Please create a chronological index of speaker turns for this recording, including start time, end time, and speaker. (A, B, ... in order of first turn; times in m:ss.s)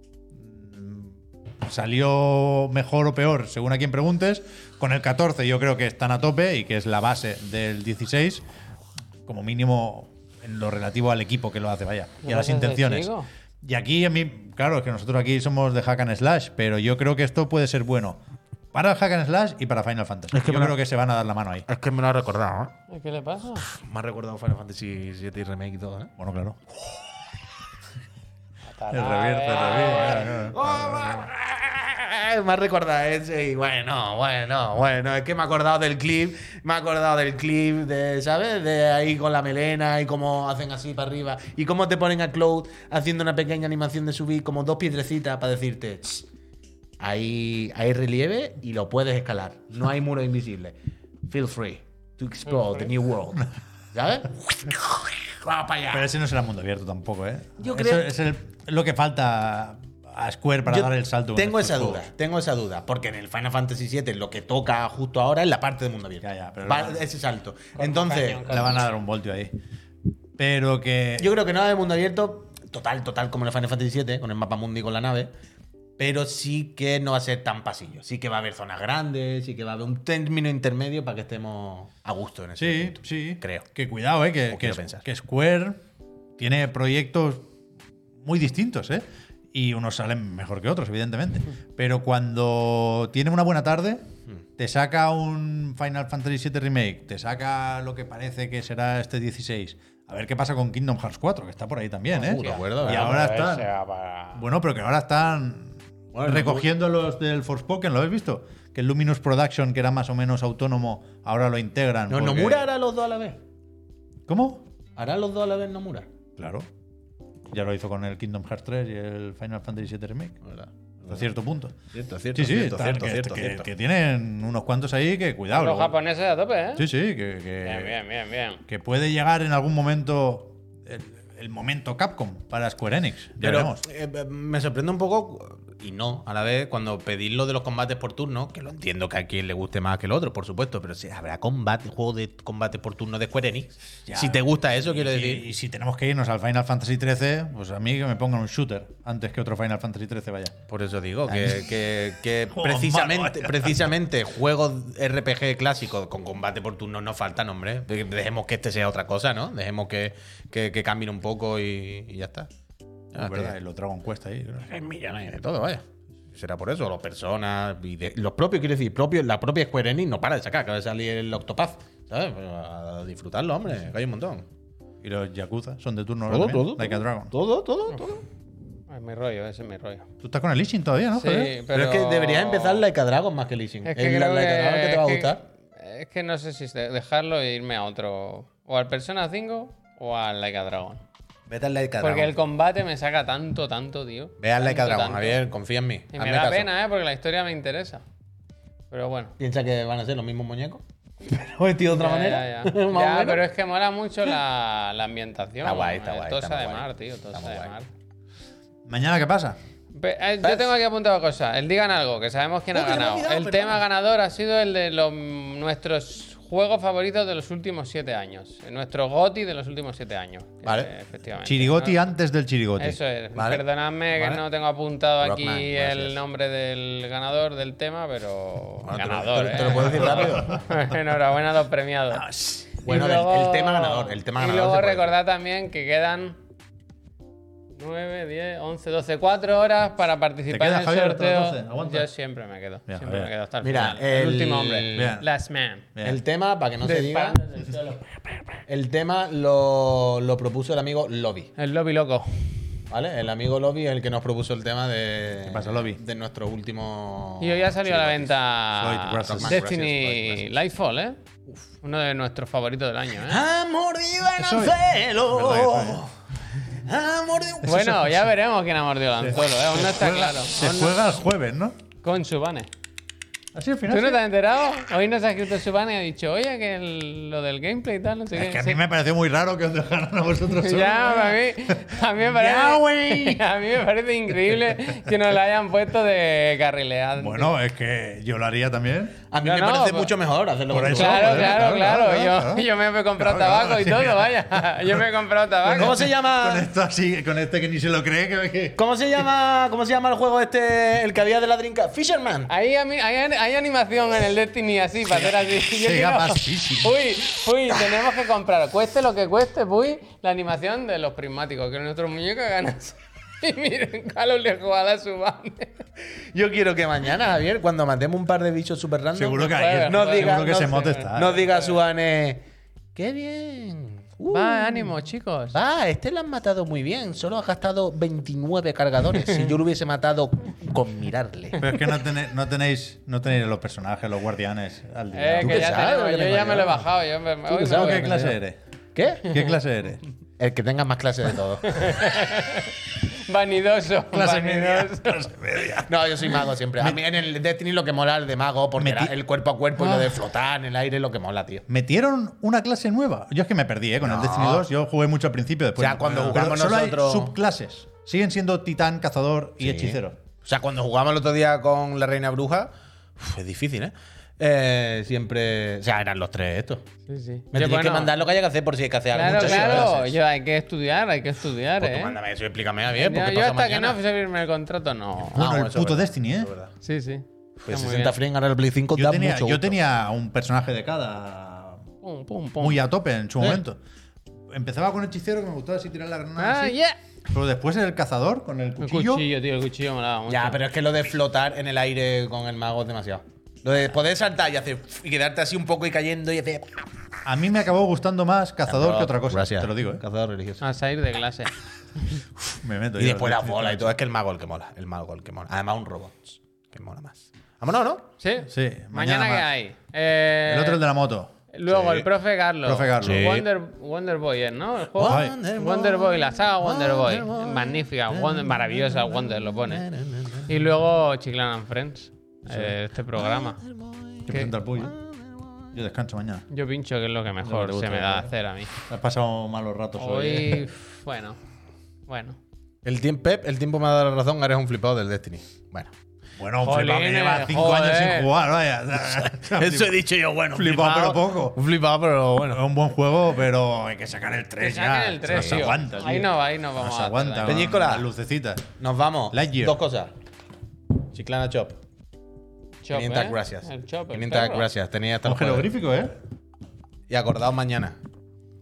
0:00.4-0:08.4 A
0:09.3-0:18.2 A
0:12.2-0:13.3 B
0:18.7-0:21.7 A
0:20.3-0:20.8 C
0:21.7-0:22.7 C
0:22.9-0:23.7 B
0:23.7-0:26.1 C
0:26.2-0:26.6 A
0:28.8-0:30.5 B
0:28.9-0:31.2 A
0:29.9-0:46.2 C
0:47.0-0:50.8 C
0:51.3-0:56.1 C
0:55.9-1:02.1 A
0:57.6-0:58.1 C
1:00.7-1:08.7 C
1:06.2-1:07.0 A
1:07.8-1:09.0 B
1:08.4-1:09.5 A
1:10.4-1:11.3 A
1:11.2-1:15.3 C
1:16.0-1:23.6 C
1:22.6-1:25.8 A
1:24.5-1:25.0 C
1:26.4-1:27.5 A
1:28.2-1:34.0 A
1:34.6-1:43.7 A
1:42.2-1:43.3 C
1:42.3-1:44.4 B
1:44.4-1:52.7 A
1:46.1-1:46.7 C
1:52.1-1:53.4 C
1:54.3-1:54.7 A
1:55.0-1:56.1 C
1:56.4-1:56.7 A
1:57.5-2:00.4 A
2:00.4-2:01.3 C
2:01.1-2:01.8 A
2:01.9-2:03.7 C
2:02.3-2:06.0 A
2:05.5-2:06.9 B
2:06.8-2:08.0 A
2:07.6-2:08.6 B
2:08.7-2:13.8 A
2:13.4-2:25.5 C
2:24.1-2:30.6 A
2:30.7-2:42.5 C
2:31.3-2:31.6 A
2:32.5-2:33.9 A
2:43.1-2:43.6 C
2:43.2-2:44.7 A
2:44.6-2:54.5 C
2:55.0-2:57.3 A
2:56.3-2:58.2 C
2:58.9-3:00.1 B
3:00.2-3:01.6 A
3:01.2-3:02.8 B
3:01.7-3:05.4 C
3:03.8-3:11.0 B
3:11.5-3:12.4 C
3:12.0-3:15.4 B
3:14.4-3:16.7 C
3:16.1-3:18.0 B
3:18.9-3:19.4 B
3:19.4-3:23.4 C
3:21.9-3:27.9 B
3:25.6-3:27.7 C
3:28.9-3:29.6 A
3:29.9-3:42.0 B
3:30.4-3:30.7 C
3:32.7-3:33.8 C
3:40.6-3:40.9 C
3:41.4-3:43.0 A
3:42.8-3:52.3 B
3:43.4-3:44.4 C
3:45.2-3:46.2 C
3:48.8-3:50.6 C
3:52.1-3:52.7 A
3:52.8-3:56.4 B
3:52.8-3:55.1 C
3:57.8-4:05.9 B
4:00.5-4:02.1 A
4:02.9-4:03.3 A
4:03.6-4:05.2 C
4:05.0-4:05.3 A
4:06.0-4:06.2 A
4:06.0-4:07.4 C
4:06.8-4:08.3 B
4:08.7-4:11.5 C
4:11.6-4:12.4 B
4:12.9-4:18.3 C
4:15.4-4:16.0 A
4:17.4-4:21.2 B
4:18.8-4:19.6 A
4:19.2-4:20.4 C
4:21.8-4:23.4 B
4:23.2-4:26.1 C
4:24.4-4:26.0 A
4:26.8-4:27.9 C
4:27.6-4:31.1 B
4:27.7-4:28.2 A
4:29.2-4:31.8 A
4:32.0-4:32.7 B
4:33.5-4:34.2 A
4:33.9-4:38.8 B
4:38.3-4:43.4 A
4:40.5-4:47.5 B
4:47.2-4:49.2 A
4:49.3-4:51.8 C
4:49.4-4:50.2 B
4:50.7-4:55.0 A
4:50.8-4:56.1 B
4:55.6-4:59.3 A
4:55.7-4:56.7 C
4:58.8-5:02.5 C
5:02.5-5:15.8 B
5:05.1-5:07.0 A
5:16.3-5:22.4 C
5:19.2-5:21.4 A
5:19.4-5:21.7 B
5:23.0-5:24.9 C
5:24.3-5:25.6 B
5:25.5-5:31.8 C
5:31.6-5:35.8 A
5:35.1-5:38.4 B
5:35.4-5:36.9 C
5:37.5-5:38.2 C
5:37.6-5:38.6 A
5:39.0-5:39.3 C
5:39.2-5:40.0 A
5:40.4-5:41.8 C
5:41.7-5:45.3 B
5:44.1-5:47.0 A
5:45.8-5:51.6 C
5:48.8-5:49.2 A
5:51.7-6:00.2 A
5:54.0-5:54.7 C
5:55.8-5:57.4 C
5:59.6-6:06.8 C
6:07.1-6:08.1 B
6:07.5-6:10.2 C
6:09.1-6:12.2 B
6:09.3-6:09.8 A
6:11.8-6:14.0 C
6:13.0-6:15.4 B
6:15.3-6:16.7 C
6:15.3-6:16.5 A
6:16.8-6:18.2 B
6:17.6-6:19.8 C
6:19.0-6:21.9 A
6:22.0-6:22.8 B
6:22.6-6:23.8 A
6:24.5-6:26.8 A
6:26.4-6:27.0 B
6:27.3-6:29.2 A
6:28.8-6:30.6 B
6:30.3-6:36.8 C
6:37.2-6:40.0 A
6:38.7-6:40.6 C
6:40.6-6:42.2 B
6:42.6-6:44.0 A
6:43.0-6:48.1 C
6:48.2-6:50.8 B
6:48.4-6:49.5 A
6:50.4-6:51.3 A
6:51.5-6:59.8 B
6:51.7-6:52.1 C
6:52.6-6:53.3 A
6:53.0-6:53.4 C
6:55.0-7:00.5 C
6:55.0-6:55.4 A
7:00.5-7:03.6 B
7:02.5-7:02.7 A
7:03.2-7:05.6 C
7:04.3-7:04.9 A
7:05.7-7:06.5 A
7:06.5-7:08.7 B
7:07.4-7:08.3 A
7:08.9-7:10.6 A
7:10.0-7:11.4 B
7:12.1-7:12.4 B
7:12.8-7:15.9 C
7:16.4-7:20.0 A
7:16.6-7:18.3 B
7:19.1-7:22.6 C
7:20.5-7:21.6 A
7:22.5-7:28.7 A
7:24.6-7:27.7 B
7:25.3-7:25.8 C
7:27.4-7:28.1 C
7:28.8-7:30.1 C
7:29.3-7:29.8 A
7:31.1-7:31.8 C
7:32.8-7:34.7 B
7:32.9-7:35.7 C
7:35.2-7:36.2 A
7:37.1-7:38.0 C